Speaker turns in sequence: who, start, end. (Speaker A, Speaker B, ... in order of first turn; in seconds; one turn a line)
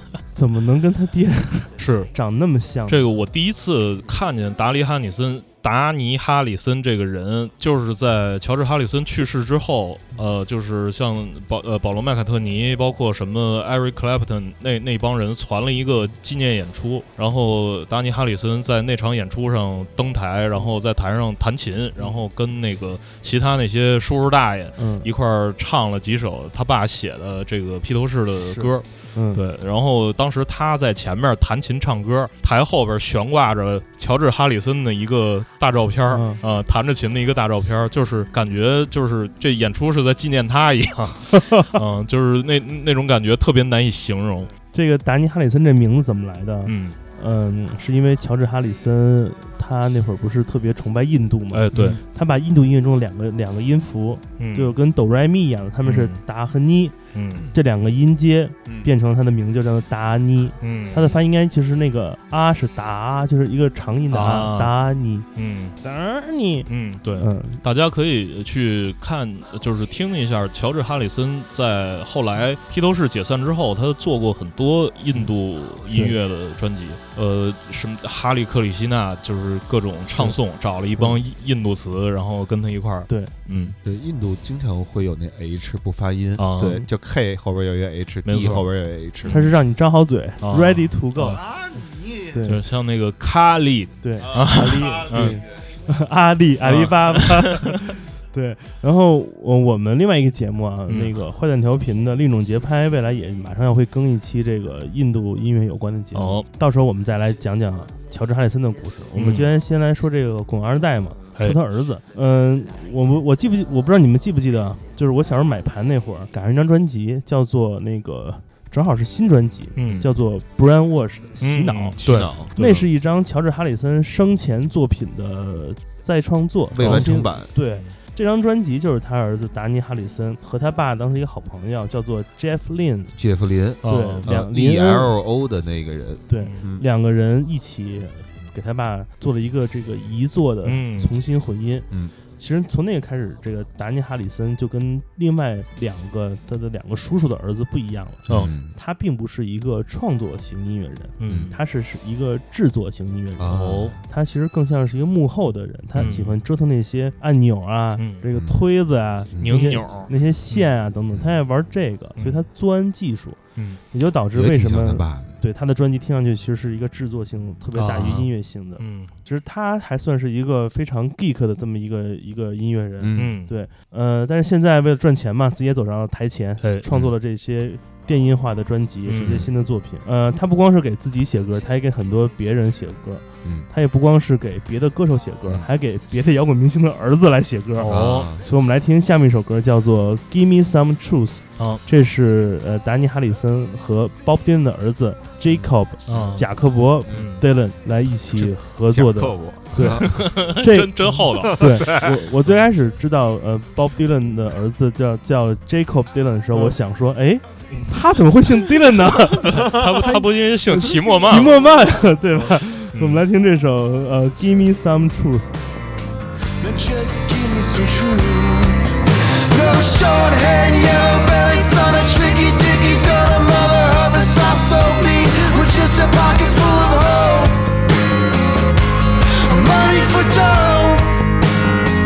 Speaker A: 0.3-3.0
Speaker B: 1.8-2.1
Speaker B: 2.9-44.5
Speaker A: 24.8-25.1
Speaker A: 28.5-29.4
Speaker A: 36.1-36.4
Speaker A: 44.7-57.0
Speaker B: 46.7-47.0
Speaker B: 51.5-52.0
Speaker B: 54.4-54.8
Speaker B: 55.9-56.2
Speaker B: 57.1-57.5
Speaker A: 57.5-65.3
Speaker B: 60.6-61.2
Speaker B: 64.1-64.8
Speaker B: 65.3-65.8
Speaker A: 65.8-67.6
Speaker B: 66.7-83.8
Speaker A: 80.1-80.4
Speaker A: 83.1-83.3
Speaker C: 83.8-89.4
Speaker B: 86.4-86.8
Speaker B: 88.2-89.5
Speaker A: 89.3-91.4
Speaker B: 90.4-91.4
Speaker C: 91.2-92.4
Speaker A: 92.3-92.6
Speaker B: 92.5-95.4
Speaker A: 94.0-133.2
Speaker C: 94.2-95.7
Speaker B: 96.6-97.7
Speaker B: 100.9-101.1
Speaker B: 106.1-106.5
Speaker B: 109.1-109.5
Speaker B: 119.8-120.1
Speaker B: 121.4-122.9
Speaker C: 122.0-122.4
Speaker C: 126.7-127.5
Speaker B: 126.8-127.1
Speaker B: 127.6-127.9
Speaker C: 133.2-136.8
Speaker B: 133.8-134.3
Speaker A: 133.9-135.1
Speaker A: 136.3-163.4
Speaker B: 140.6-141.1
Speaker C: 141.9-142.1
Speaker C: 148.3-148.8
Speaker B: 151.2-151.6
Speaker C: 151.3-151.6
Speaker C: 153.4-154.0
Speaker B: 153.5-154.0
Speaker B: 155.9-156.4
Speaker C: 158.3-158.6
Speaker C: 159.3-159.8
Speaker B: 159.4-160.7
Speaker B: 162.2-162.4
Speaker B: 163.6-163.8
Speaker A: 163.9-215.6
Speaker C: 164.3-165.4
Speaker B: 167.8-169.1
Speaker C: 173.0-173.4
Speaker B: 173.1-173.5
Speaker B: 176.6-176.9
Speaker B: 179.1-179.5
Speaker C: 179.2-179.5
Speaker C: 183.4-183.7
Speaker B: 187.8-188.3
Speaker C: 187.9-188.5
Speaker C: 195.5-196.2
Speaker B: 196.1-196.4
Speaker B: 197.1-197.4
Speaker C: 198.4-200.5
Speaker B: 199.8-201.9
Speaker C: 201.6-202.1
Speaker B: 209.5-211.6
Speaker C: 209.7-210.0
Speaker B: 212.9-213.2
Speaker D: 216.6-227.6
Speaker D: 229.4-231.1